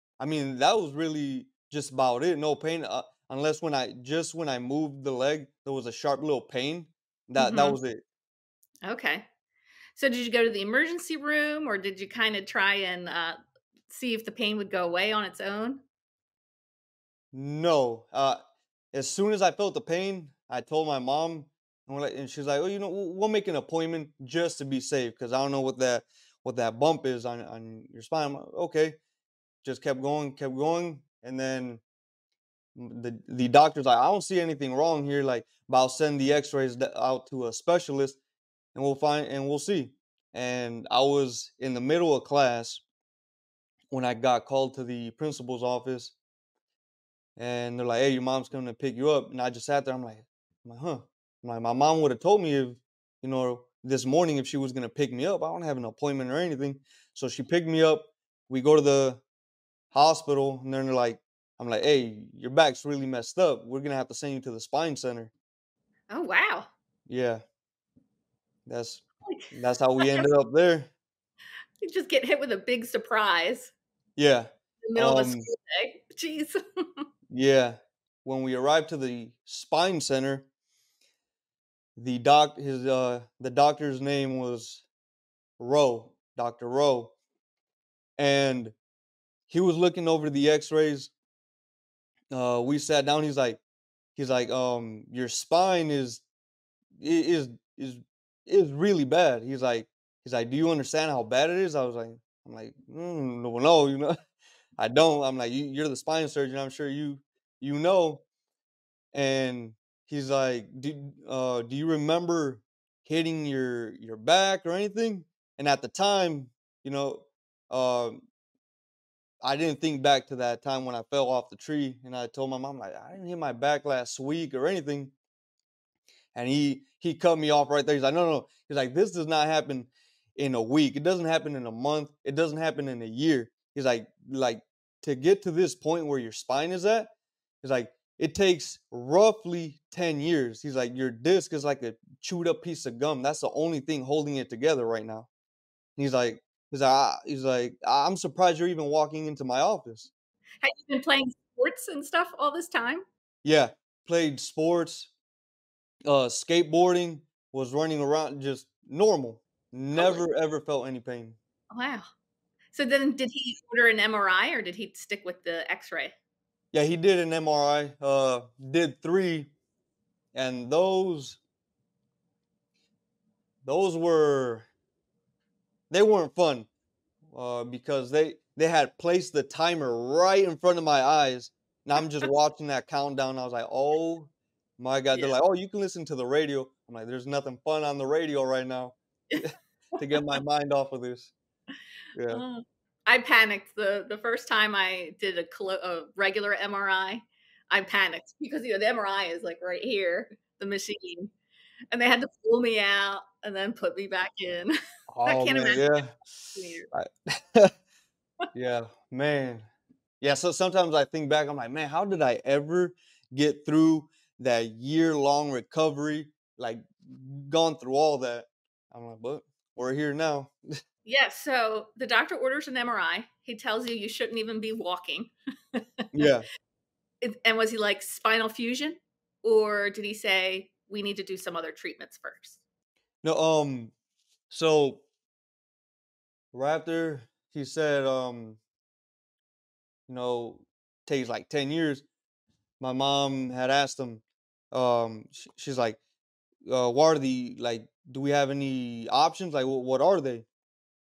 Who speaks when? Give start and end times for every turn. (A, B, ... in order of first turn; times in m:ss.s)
0:00.2-0:08.0 A
0:07.4-0:07.8 B
0:08.8-0:09.2 B
0:09.9-0:13.4 B
0:13.9-0:15.8 B
0:17.3-0:18.4 A
0:18.9-0:29.0 A
0:29.6-0:31.8 A
0:32.7-0:38.2 A
0:38.7-0:42.8 A
0:43.9-0:46.1 A
0:47.4-0:59.2 A
0:59.9-1:05.3 A
1:06.1-1:06.7 B
1:07.1-1:07.4 A
1:08.6-1:10.9 A
1:09.2-1:10.3 B
1:11.8-1:13.7 B
1:14.2-1:15.5 A
1:14.8-1:17.0 B
1:17.3-1:20.5 A
1:22.0-1:24.8 A
1:25.6-1:27.1 A
1:28.2-1:28.7 A
1:29.5-1:31.1 A
1:32.3-1:33.6 A
1:34.2-1:36.2 A
1:37.0-1:44.1 A
1:44.8-1:48.2 A
1:49.1-1:58.2 A
1:59.4-2:05.1 A
2:06.3-2:17.1 A
2:17.6-2:25.3 A
2:26.0-2:30.1 A
2:30.6-2:33.0 B
2:33.4-2:35.1 A
2:36.0-2:41.4 A
2:40.0-2:40.2 B
2:41.7-2:42.1 B
2:42.7-2:46.1 B
2:46.7-2:49.5 A
2:50.3-2:51.4 A
2:53.6-2:54.7 A
2:55.9-2:56.7 A
2:57.3-3:11.3 A
3:12.1-3:12.4 A
3:12.3-3:21.3 B
3:21.9-3:26.0 B
3:25.1-3:27.7 A
3:26.5-3:26.9 B
3:28.5-3:29.7 A
3:30.2-3:40.5 A
3:41.0-3:46.3 B
3:46.1-3:46.4 A
3:47.2-3:52.6 B
3:53.2-3:53.9 A
3:54.5-3:55.0 A
3:56.5-3:58.6 A
4:00.1-4:02.0 A
4:02.8-4:06.0 A
4:06.7-4:10.4 A